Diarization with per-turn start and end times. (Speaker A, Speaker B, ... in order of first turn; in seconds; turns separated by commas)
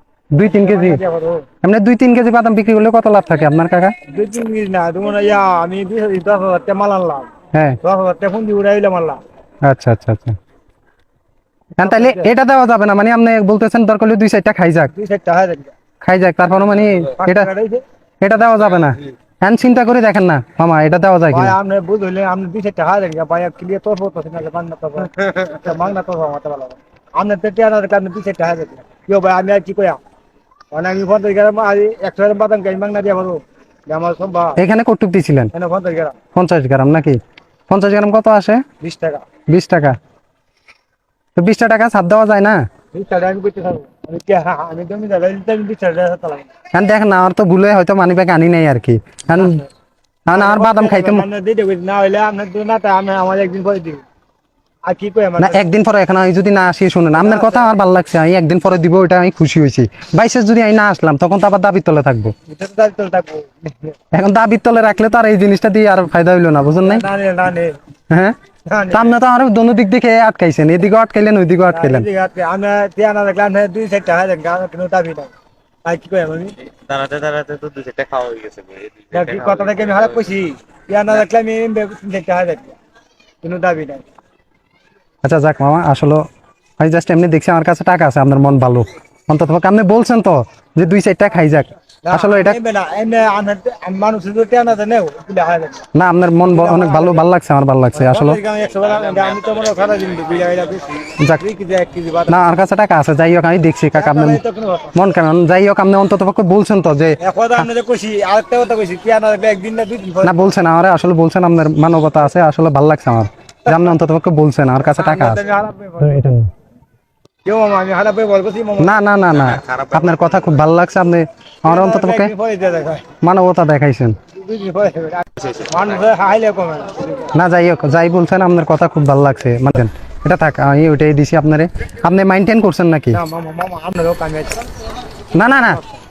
Speaker A: 0.3-1.0, Speaker B: 0.4-1.4, Speaker A: 1.6-4.0, Speaker B: 4.1-7.3, Speaker B: 7.8-9.2, Speaker A: 9.6-10.4, Speaker A: 11.8-14.9, Speaker B: 11.8-12.3, Speaker B: 14.9-15.7, Speaker A: 16.0-17.5, Speaker B: 17.2-17.8, Speaker A: 18.2-21.6, Speaker B: 21.3-30.0, Speaker B: 30.7-34.6, Speaker A: 34.6-35.5, Speaker B: 35.5-36.2, Speaker A: 36.4-38.6, Speaker B: 38.8-39.2, Speaker A: 39.5-40.0, Speaker A: 41.4-42.6, Speaker B: 42.9-46.5, Speaker A: 46.7-49.6, Speaker B: 49.3-49.7, Speaker A: 50.3-51.3, Speaker B: 50.3-54.0, Speaker B: 54.9-55.6, Speaker A: 55.4-62.3, Speaker B: 57.1-57.7, Speaker B: 62.5-64.0, Speaker A: 64.1-67.1, Speaker B: 66.8-67.7, Speaker A: 68.1-68.4, Speaker B: 68.7-69.1, Speaker A: 68.9-72.1, Speaker B: 71.7-75.3, Speaker B: 75.8-76.5, Speaker C: 76.6-80.3, Speaker B: 79.1-82.8, Speaker B: 83.4-84.0, Speaker A: 85.2-86.2, Speaker A: 86.8-92.6, Speaker B: 92.0-95.9, Speaker A: 96.0-98.4, Speaker B: 96.4-97.2, Speaker B: 97.9-102.4, Speaker C: 98.7-100.8, Speaker A: 102.3-104.4, Speaker B: 104.0-105.0, Speaker A: 105.0-107.6, Speaker B: 107.2-110.5, Speaker A: 110.2-115.4, Speaker B: 114.9-116.3, Speaker A: 116.0-116.5, Speaker B: 117.5-118.9, Speaker A: 118.8-122.3, Speaker C: 119.3-120.6, Speaker B: 121.7-123.1, Speaker A: 123.2-124.2, Speaker B: 124.3-127.3, Speaker C: 125.4-125.9, Speaker A: 127.3-133.2, Speaker B: 133.1-134.6, Speaker A: 135.3-135.8, Speaker B: 135.6-136.0